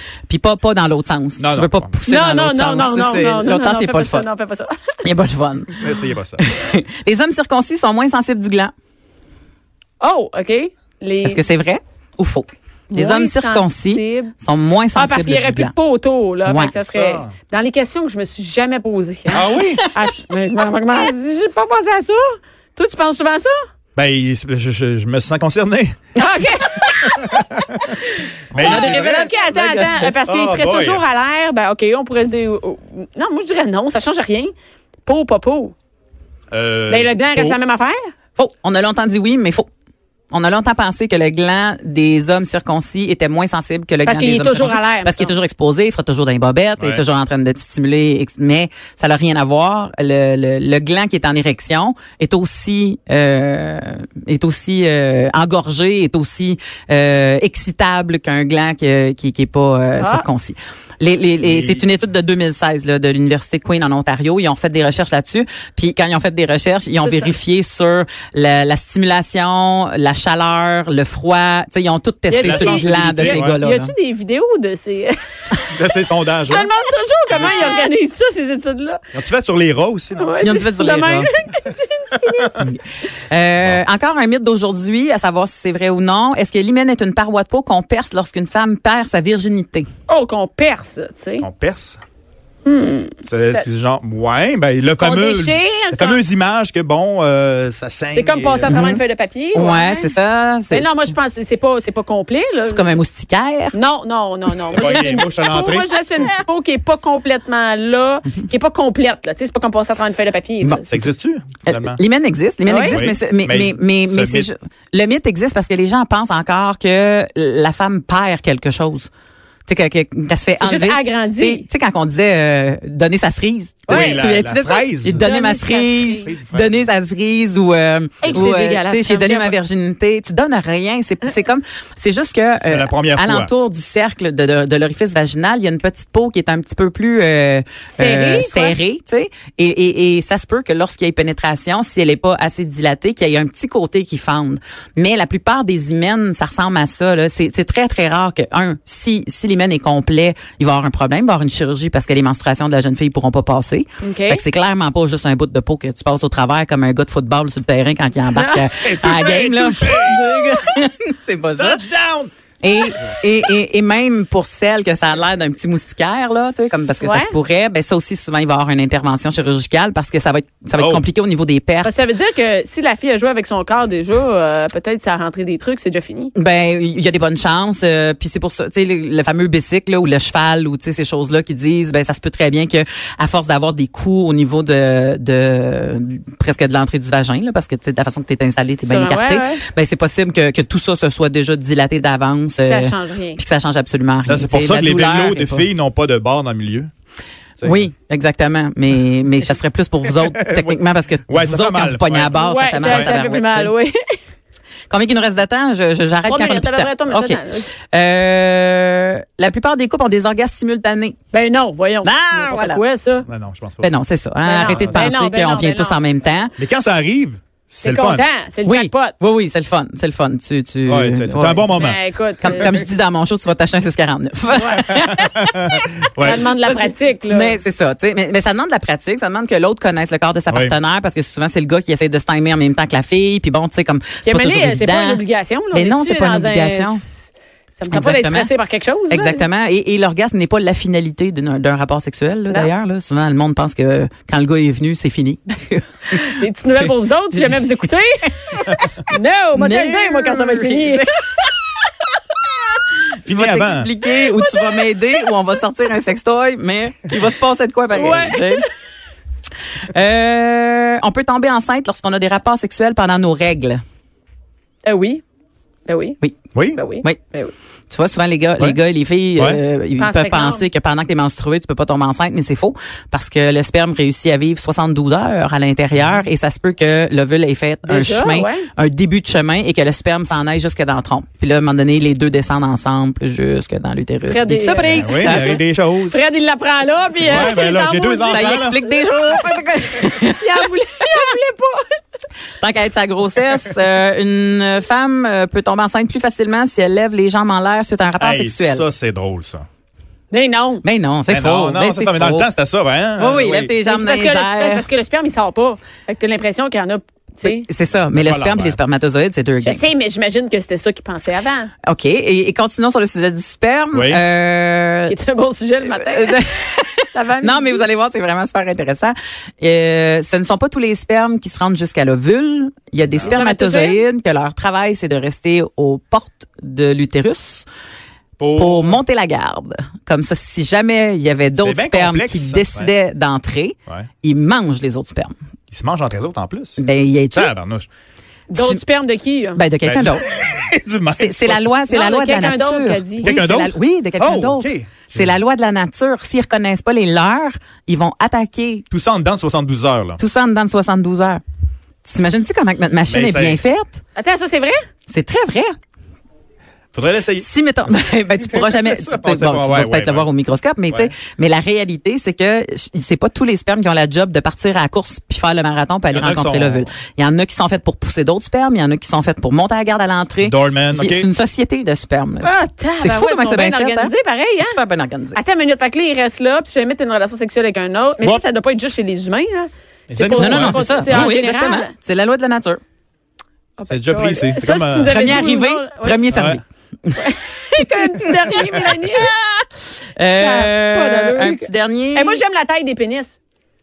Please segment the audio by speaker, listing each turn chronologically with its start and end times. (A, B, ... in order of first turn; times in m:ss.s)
0:00.3-0:04.3 A
0:01.4-0:01.9 B
0:02.1-0:05.0 C
0:05.0-0:08.7 A
0:05.8-0:06.4 B
0:10.0-0:11.4 C
0:11.2-0:15.7 A
0:12.9-0:14.3 C
0:15.0-0:23.6 C
0:16.4-0:16.8 A
0:16.8-0:17.3 B
0:19.3-0:19.8 B
0:24.0-0:26.0 B
0:26.2-0:27.2 C
0:27.1-0:28.0 B
0:28.0-0:34.5 C
0:28.5-0:30.1 A
0:28.5-0:29.3 B
0:30.3-0:31.0 B
0:35.0-0:35.8 C
0:36.5-0:37.6 B
0:36.9-0:38.0 C
0:38.4-0:39.7 A
0:40.3-1:13.9 A
0:44.0-0:45.3 C
1:00.0-1:00.2 C
1:01.4-1:01.8 B
1:07.0-1:07.3 C
1:12.3-1:15.6 C
1:12.4-1:13.5 B
1:15.7-1:16.7 B
1:16.4-1:19.0 C
1:19.1-1:20.4 B
1:20.2-1:22.7 C
1:20.4-1:21.3 A
1:23.3-1:29.9 A
1:30.1-1:31.5 C
1:31.4-1:32.0 B
1:32.6-1:33.7 C
1:33.3-1:38.8 B
1:35.0-1:36.2 C
1:38.1-1:40.1 C
1:38.7-1:39.0 A
1:39.5-1:41.1 A
1:40.7-1:43.0 C
1:42.6-1:43.8 A
1:43.7-1:51.0 C
1:44.7-1:45.1 A
1:44.7-1:45.9 B
1:50.9-1:52.0 B
1:51.7-1:59.1 A
1:52.7-1:53.0 C
1:52.9-1:54.5 B
1:59.7-2:41.8 A
2:00.6-2:01.6 C
2:03.9-2:05.4 B
2:03.9-2:04.2 C
2:05.2-2:06.3 C
2:06.2-2:06.9 B
2:08.2-2:09.5 C
2:12.6-2:13.5 B
2:17.9-2:18.8 C
2:34.0-2:34.4 C
2:38.3-2:38.7 C
2:38.8-2:40.2 B
2:41.6-2:42.3 B
2:42.6-2:52.0 A
2:47.0-2:47.4 C
2:50.7-2:51.0 B
2:51.8-2:56.3 C
2:56.4-3:15.7 A
3:08.8-3:09.6 C
3:12.6-3:13.4 C
3:14.3-3:16.9 B
3:17.6-3:17.9 B
3:17.6-3:23.7 A
3:20.4-3:23.1 B
3:22.3-3:24.0 C
3:24.9-3:31.2 A
3:26.3-3:27.7 C
3:31.3-3:33.3 C
3:32.0-3:32.8 A
3:33.3-3:34.0 B
3:33.8-3:36.5 A
3:34.4-3:36.0 C
3:34.6-3:35.1 B
3:36.6-3:38.2 B
3:37.8-3:39.2 C
3:38.6-3:41.7 A
3:40.9-3:42.0 B
3:41.7-3:42.8 C
3:42.4-3:57.0 A
3:44.9-3:46.4 B
3:46.2-3:47.6 C
3:54.2-3:59.4 C
3:57.9-3:58.5 A
3:59.1-4:07.6 A
4:06.1-4:11.1 C
4:09.6-4:11.2 A
4:13.2-4:18.6 A
4:13.3-4:13.9 B
4:17.9-4:18.6 C
4:19.9-4:23.8 A
4:24.8-4:25.2 C
4:25.9-4:26.2 C
4:26.6-4:26.8 B
4:26.7-4:27.5 C
4:27.9-4:45.6 A
4:30.0-4:30.7 C
4:37.9-4:38.7 C
4:44.3-4:48.8 C
4:44.8-4:46.2 B
4:47.2-4:51.2 A
4:47.2-4:48.8 B
4:50.4-4:52.0 C
4:52.6-4:58.8 A
4:58.2-4:59.7 B
5:00.3-5:00.8 C
5:00.8-5:02.5 A
5:01.3-5:03.7 B
5:03.2-5:04.9 A
5:03.8-5:07.7 C
5:07.4-5:09.8 A
5:08.1-5:08.8 B
5:09.6-5:11.7 C
5:11.8-5:15.2 A
5:13.9-5:14.2 B
5:15.1-5:16.5 C
5:15.9-5:27.7 A
5:17.1-5:17.8 C
5:23.2-5:24.0 C
5:28.4-5:29.0 B
5:28.6-5:35.3 A
5:31.5-5:32.9 B
5:35.7-5:36.8 B
5:36.8-5:37.6 A
5:37.3-5:37.9 B
5:38.5-5:39.6 C
5:38.5-5:38.8 A
5:39.6-5:40.2 A
5:39.8-5:41.8 B
5:41.1-5:48.9 A
5:41.9-5:43.3 C
5:43.2-5:45.4 B
5:48.9-5:50.2 B
5:50.2-5:51.4 A
5:52.0-5:54.0 A
5:53.1-5:53.6 B
5:54.2-5:54.9 C
5:55.1-5:55.7 A
5:56.9-5:57.5 B
5:57.4-6:15.4 A
5:58.4-6:00.3 B
6:06.1-6:06.9 B
6:10.4-6:11.3 B
6:12.4-6:14.8 C
6:15.3-6:21.9 C
6:20.1-6:21.3 B
6:20.4-6:22.8 A
6:23.8-6:26.3 C
6:23.9-6:25.4 B
6:25.0-6:27.2 A
6:26.3-6:26.6 B
6:27.2-6:29.3 C
6:27.8-6:32.4 A
6:30.4-6:33.4 C